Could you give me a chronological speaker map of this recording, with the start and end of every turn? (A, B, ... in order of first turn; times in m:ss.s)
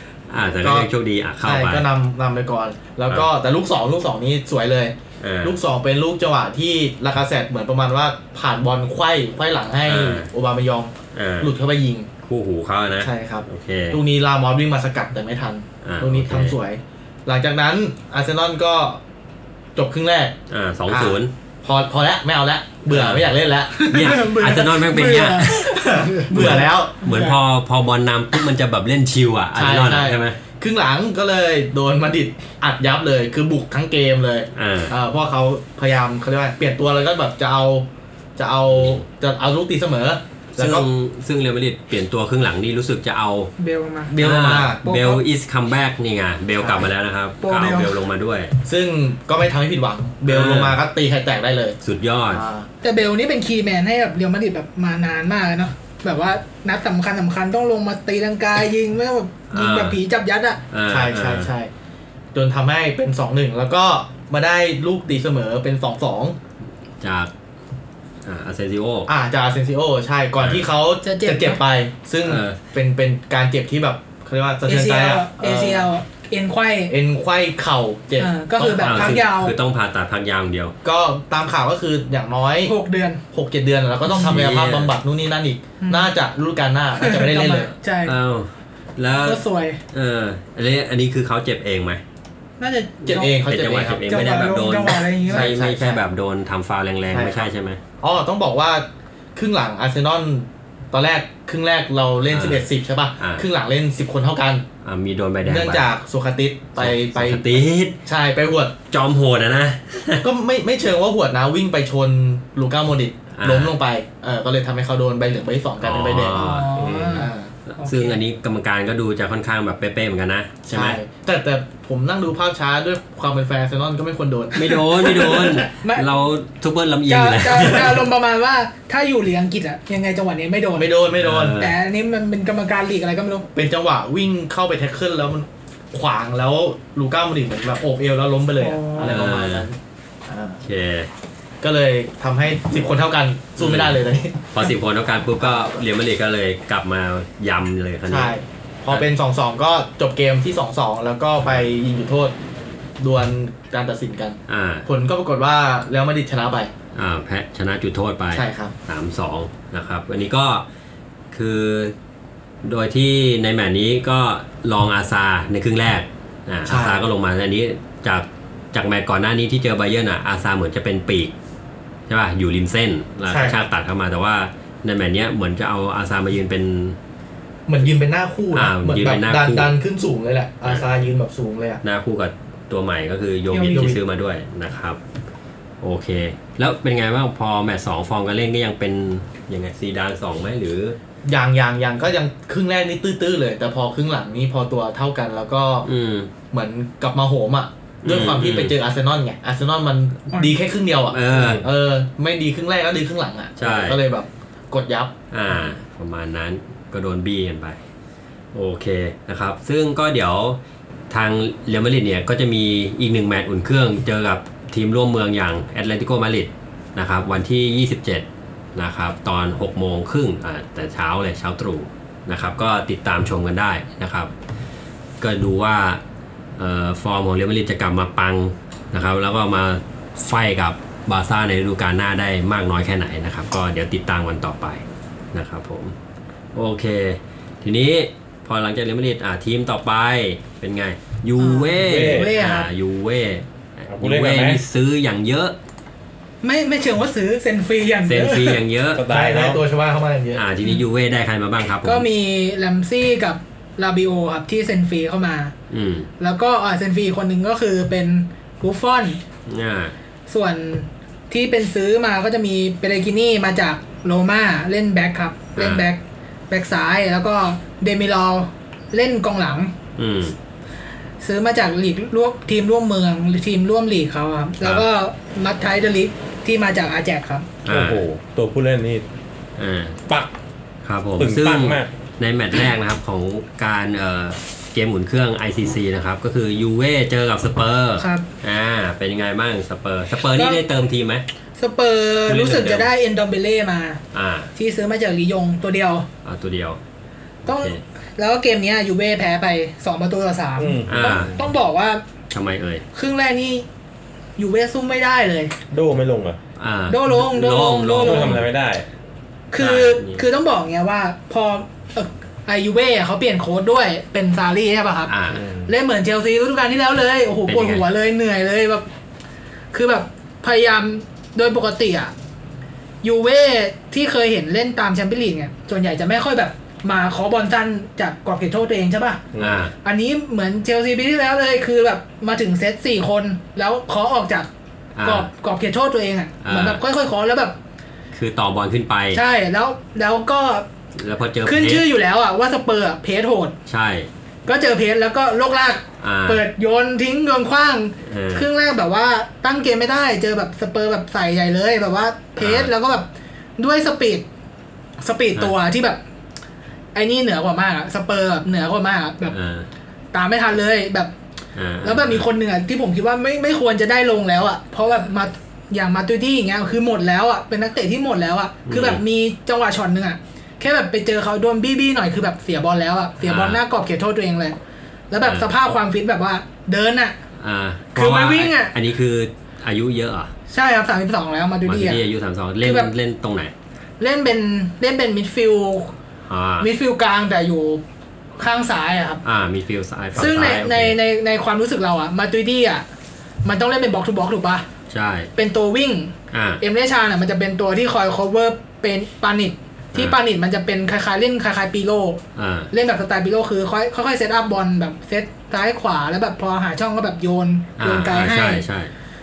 0:00.3-0:01.9 A
0:00.6-0:00.9 B
0:01.4-0:12.1 B
0:05.2-0:05.6 A
0:09.9-0:10.3 A
0:11.1-0:11.5 A
0:12.2-0:14.0 A
0:13.0-0:19.0 B
0:15.8-0:16.6 A
0:19.8-0:20.4 B
0:20.5-0:21.3 A
0:20.9-0:24.2 B
0:22.9-0:23.3 A
0:23.9-0:25.8 A
0:23.9-0:27.4 C
0:25.5-0:27.2 B
0:26.3-0:30.4 A
0:29.6-0:40.9 B
0:34.6-0:34.9 A
0:38.8-0:39.0 A
0:40.6-0:43.5 A
0:43.6-0:44.2 C
0:44.1-0:44.8 B
0:44.2-0:48.6 A
0:44.8-0:45.2 C
0:46.6-0:46.9 B
0:47.4-0:48.0 C
0:48.6-0:51.8 B
0:50.3-0:50.8 A
0:51.8-0:52.4 A
0:52.3-0:52.7 B
0:52.8-1:00.6 C
0:59.5-1:00.0 A
1:00.7-1:01.5 A
1:00.9-1:01.7 B
1:02.3-1:06.4 B
1:07.0-1:07.3 A
1:08.2-1:09.1 A
1:09.1-1:15.9 B
1:10.4-1:10.7 A
1:11.0-1:11.6 C
1:12.2-1:12.6 A
1:14.7-1:16.9 C
1:16.9-1:19.2 B
1:18.2-1:19.6 C
1:18.8-1:20.8 A
1:20.8-1:22.7 B
1:22.6-1:23.2 C
1:23.3-1:27.7 B
1:24.1-1:24.9 A
1:25.8-1:26.1 C
1:27.0-1:28.2 C
1:28.0-1:29.4 A
1:29.1-1:29.8 C
1:29.9-1:32.0 A
1:32.6-1:33.4 C
1:33.0-1:34.3 B
1:33.1-1:37.8 A
1:34.1-1:35.5 C
1:35.3-1:36.0 B
1:37.1-1:37.4 B
1:38.0-1:44.7 B
1:42.3-1:42.6 A
1:43.2-1:43.4 A
1:44.8-1:45.8 A
1:45.4-1:48.8 B
1:46.8-1:48.0 A
1:48.9-1:50.2 A
1:50.2-1:56.6 B
1:53.4-1:53.7 A
1:55.8-1:56.9 A
1:56.3-1:58.2 C
1:56.8-1:57.1 D
1:57.1-1:57.5 B
1:57.7-2:01.0 A
2:00.7-2:05.7 B
2:04.5-2:08.0 A
2:05.6-2:06.1 C
2:07.1-2:10.9 C
2:10.8-2:11.6 B
2:11.2-2:11.8 A
2:11.6-2:13.5 C
2:13.5-2:19.8 B
2:18.6-2:19.2 C
2:19.0-2:19.7 A
2:20.3-2:20.6 B
2:20.6-2:21.1 A
2:21.6-2:24.7 B
2:23.6-2:28.3 A
2:25.4-2:25.8 B
2:28.1-2:32.4 B
2:33.0-2:36.7 B
2:34.5-2:34.9 A
2:37.0-2:40.6 A
2:38.3-2:38.7 B
2:41.3-2:41.9 A
2:42.6-2:51.3 A
2:46.7-2:47.0 B
2:52.1-2:57.0 A
2:53.3-2:53.6 B
2:57.7-3:01.8 B
2:58.5-2:59.7 A
3:01.8-3:05.0 A
3:03.5-3:04.0 C
3:03.7-3:04.0 B
3:05.8-3:11.0 A
3:11.2-3:15.9 B
3:15.8-3:16.3 A
3:16.5-3:25.1 B
3:18.0-3:18.8 A
3:21.1-3:21.6 A
3:23.6-3:24.0 A
3:25.3-3:27.8 A
3:28.5-3:30.6 A
3:31.1-3:44.3 A
3:45.2-3:46.0 A
3:46.6-3:56.0 A
3:56.5-4:05.6 A
4:01.4-4:02.7 C
4:01.8-4:02.3 D
4:03.9-4:04.6 D
4:06.4-4:08.6 C
4:08.1-4:09.0 A
4:08.9-4:09.6 D
4:09.1-4:10.4 B
4:10.4-4:12.0 A
4:11.8-4:15.5 C
4:15.7-4:16.1 A
4:16.2-4:19.2 C
4:19.5-4:19.9 A
4:20.3-4:29.7 C
4:25.6-4:25.9 A
4:30.0-4:30.4 A
4:31.2-4:37.5 C
4:37.6-4:38.0 A
4:37.7-4:39.0 D
4:39.6-4:40.0 A
4:40.8-4:51.2 A
4:41.2-4:41.9 D
4:48.0-4:48.3 C
4:50.3-4:50.6 C
4:51.6-4:54.0 C
4:52.4-4:52.8 A
4:54.1-4:54.5 A
4:54.6-4:56.1 C
4:56.2-4:56.8 A
4:57.4-4:57.8 A
4:57.5-5:02.0 C
5:00.6-5:01.4 D
5:00.9-5:01.3 A
5:02.3-5:02.8 A
5:02.9-5:03.7 C
5:04.4-5:05.6 C
5:05.7-5:06.4 D
5:06.6-5:08.5 A
5:06.9-5:08.5 C
5:08.0-5:08.8 D
5:09.5-5:15.1 C
5:09.6-5:10.2 A
5:15.1-5:15.4 A
5:15.3-5:15.7 D
5:15.7-5:18.9 C
5:17.5-5:17.8 A
5:19.7-5:22.1 C
5:23.0-5:29.2 C
5:29.3-5:29.7 D
5:29.4-5:29.7 A
5:29.8-5:34.5 C
5:35.0-5:35.3 A
5:35.0-5:37.6 C
5:36.4-5:36.8 A
5:38.1-5:39.2 A
5:39.1-5:40.7 C
5:41.0-5:41.8 A
5:41.4-5:43.6 C
5:43.7-5:44.1 A
5:44.5-5:54.2 C
5:46.0-5:46.4 A
5:48.1-5:48.5 A
5:52.4-5:52.7 A
5:55.0-5:56.0 C
5:56.9-5:59.4 C
5:59.3-5:59.7 A
6:00.1-6:01.1 C
6:01.6-6:02.3 A
6:01.8-6:14.6 C
6:08.7-6:09.0 A
6:13.2-6:13.6 A
6:15.1-6:17.2 C
6:15.2-6:15.5 A
6:17.4-6:20.3 A
6:18.0-6:18.7 C
6:20.5-6:22.0 C
6:21.7-6:23.5 A
6:22.6-6:22.9 C
6:24.0-6:26.0 C
6:26.3-6:26.7 A
6:26.6-6:27.8 C
6:28.4-6:29.2 C
6:29.2-6:31.0 A
6:30.2-6:32.8 C
6:33.4-6:34.7 C
6:34.9-6:35.3 A
6:35.4-6:42.2 C
6:36.3-6:36.6 A
6:42.4-6:42.7 A
6:42.7-6:48.6 C
6:47.8-6:48.9 A